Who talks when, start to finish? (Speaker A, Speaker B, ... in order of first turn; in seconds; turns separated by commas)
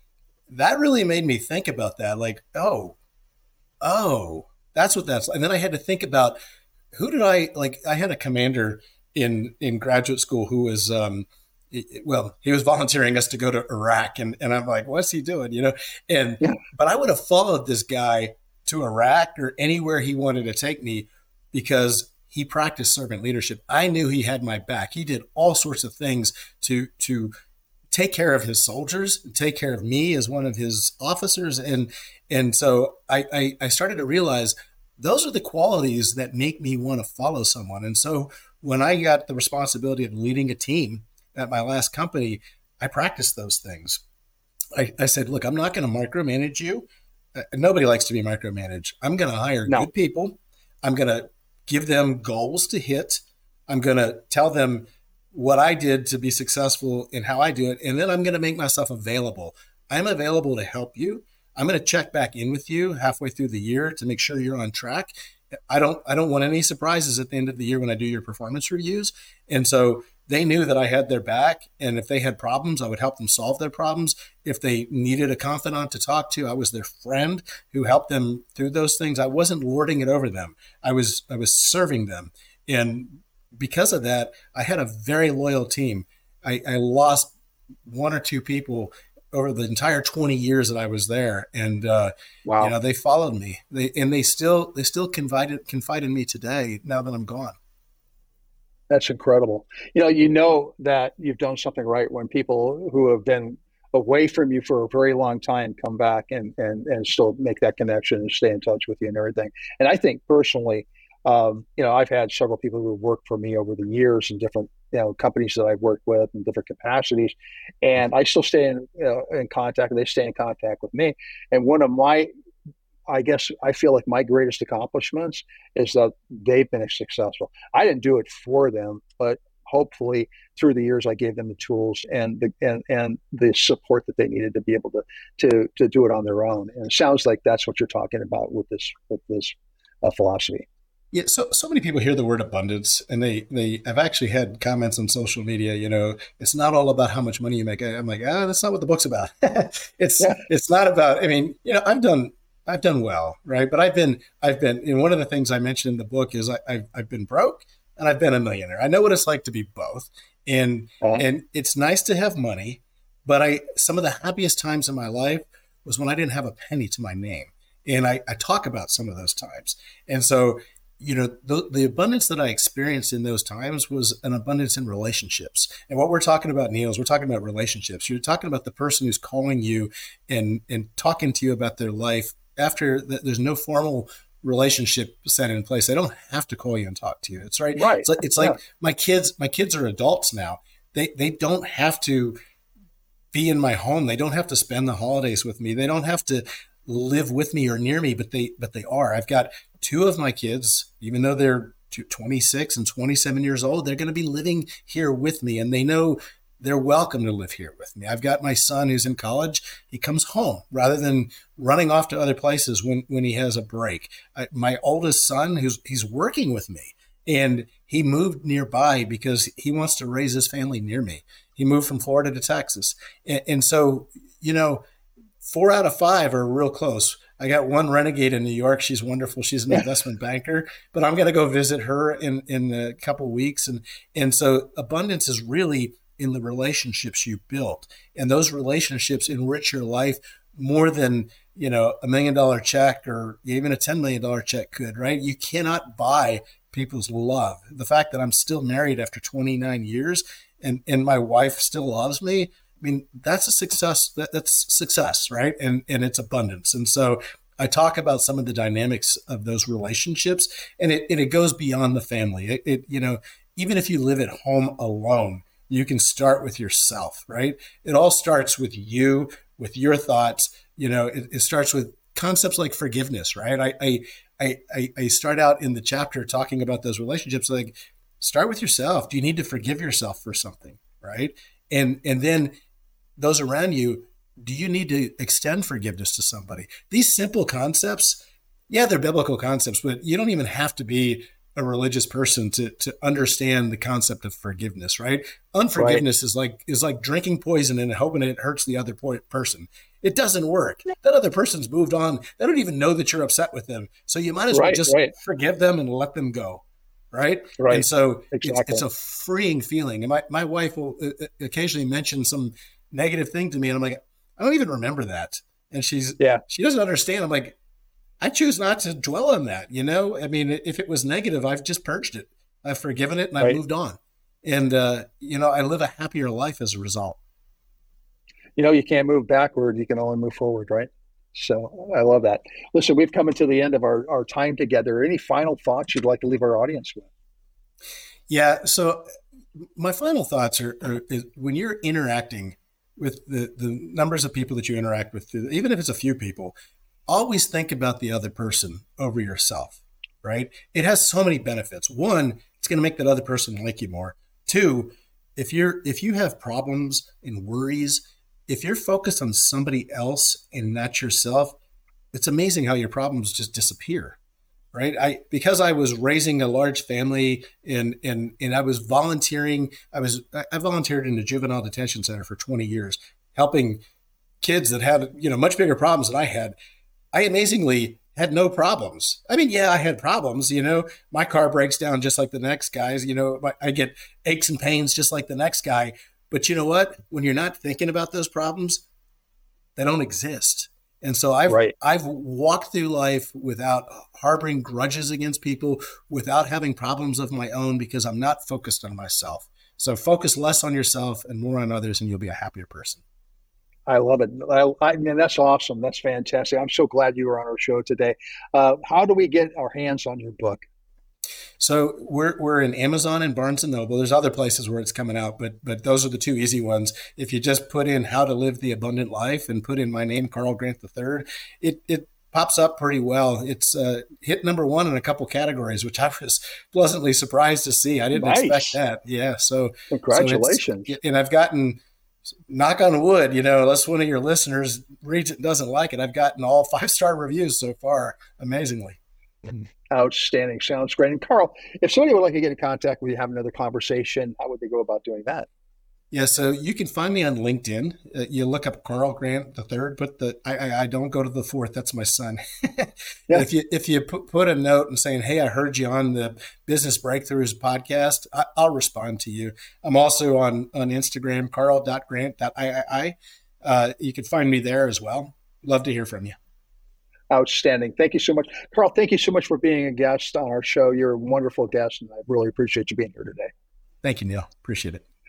Speaker A: 0.5-3.0, Speaker A: 3.8-6.4, Speaker A: 6.9-27.3, Speaker A: 27.9-44.0, Speaker A: 44.7-65.1, Speaker A: 65.7-87.3, Speaker A: 87.8-97.5, Speaker B: 92.5-92.7, Speaker B: 98.9-122.3, Speaker B: 123.1-140.7, Speaker A: 141.1-192.4, Speaker B: 187.8-188.6, Speaker A: 193.3-224.8, Speaker A: 225.4-282.6, Speaker A: 283.2-317.6, Speaker B: 295.8-296.0, Speaker B: 304.5-305.1, Speaker B: 307.6-308.8, Speaker A: 318.2-327.2, Speaker B: 328.6-337.1, Speaker A: 338.3-339.1, Speaker A: 339.8-346.6, Speaker A: 347.1-361.6, Speaker A: 362.1-364.2, Speaker A: 364.7-373.8, Speaker A: 374.4-376.6, Speaker A: 377.1-388.8, Speaker A: 389.8-403.0, Speaker B: 403.9-410.6, Speaker A: 411.6-431.8, Speaker B: 428.1-428.8, Speaker B: 429.9-430.9, Speaker A: 432.5-439.0, Speaker B: 439.9-445.5, Speaker A: 446.1-466.4, Speaker B: 467.3-473.5, Speaker A: 474.0-475.0